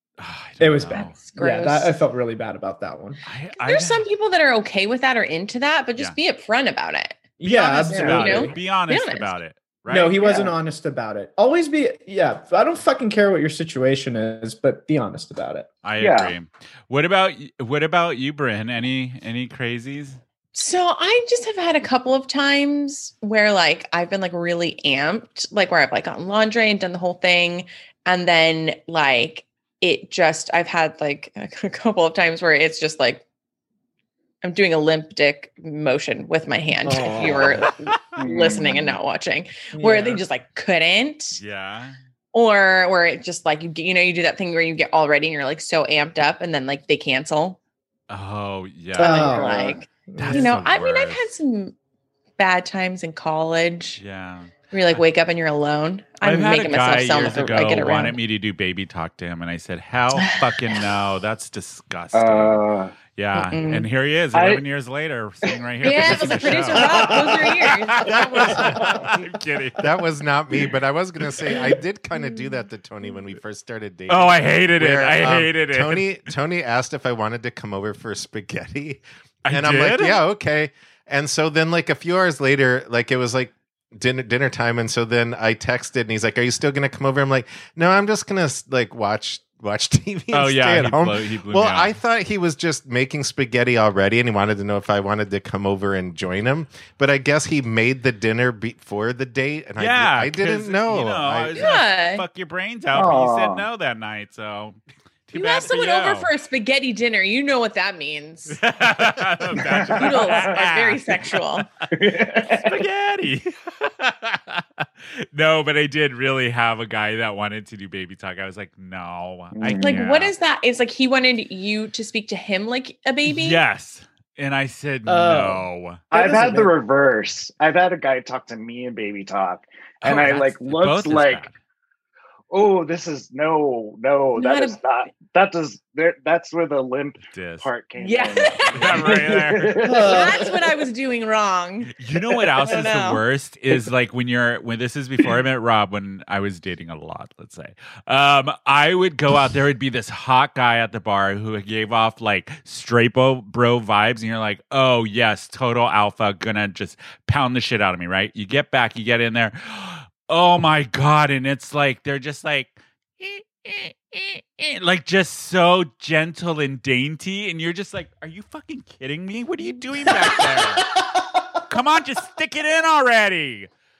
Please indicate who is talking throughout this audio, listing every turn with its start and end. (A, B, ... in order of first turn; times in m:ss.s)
0:00.2-0:01.2 A
0:00.6-0:03.2 B
0:00.9-0:01.9 C
0:03.2-0:04.0 A
0:03.5-0:07.2 C
0:07.4-0:08.6 B
0:07.4-0:10.3 A
0:07.9-0:09.3 C
0:07.9-0:08.2 D
0:09.9-0:15.7 B
0:15.8-0:20.2 A
0:16.0-0:16.3 D
0:20.5-0:33.2 C
0:34.4-0:41.4 C
0:36.8-0:37.7 B
0:37.6-0:38.0 A
0:38.2-0:39.0 D
0:39.7-0:40.2 B
0:41.3-0:42.0 A
0:42.3-0:47.6 C
0:48.1-0:49.2 A
0:49.0-0:50.7 B
0:49.0-0:51.8 C
0:49.0-0:49.8 D
0:50.2-0:51.2 A
0:52.4-0:54.0 C
0:54.0-0:55.0 A
0:54.7-0:58.2 C
0:56.2-1:02.6 A
1:00.2-1:00.8 C
1:02.1-1:02.9 D
1:03.1-1:09.8 A
1:03.3-1:03.8 C
1:04.3-1:04.6 D
1:05.8-1:08.8 C
1:06.0-1:07.2 D
1:06.5-1:07.6 B
1:08.5-1:09.2 B
1:09.8-1:41.6 E
1:14.1-1:16.2 A
1:19.4-1:20.2 A
1:30.3-1:31.9 A
1:39.8-1:46.3 A
1:41.6-1:42.2 C
1:42.9-1:43.6 D
1:45.3-1:48.6 C
1:48.5-1:51.9 A
1:49.5-1:50.7 D
1:49.9-1:51.7 C
1:51.9-1:52.8 D
1:52.4-2:00.3 A
1:59.5-2:00.0 D
1:59.8-2:03.6 C
2:03.2-2:06.0 A
2:05.0-2:06.8 B
2:06.1-2:11.5 D
2:10.0-2:11.5 A
2:12.5-2:20.5 D
2:14.3-2:14.8 C
2:17.3-2:17.7 A
2:18.0-2:19.1 C
2:18.6-2:19.8 A
2:19.8-2:20.5 B
2:20.0-2:22.0 C
2:22.0-2:50.9 A
2:22.6-2:22.9 D
2:22.6-2:23.2 C
2:50.1-2:51.2 B
2:51.7-2:53.7 A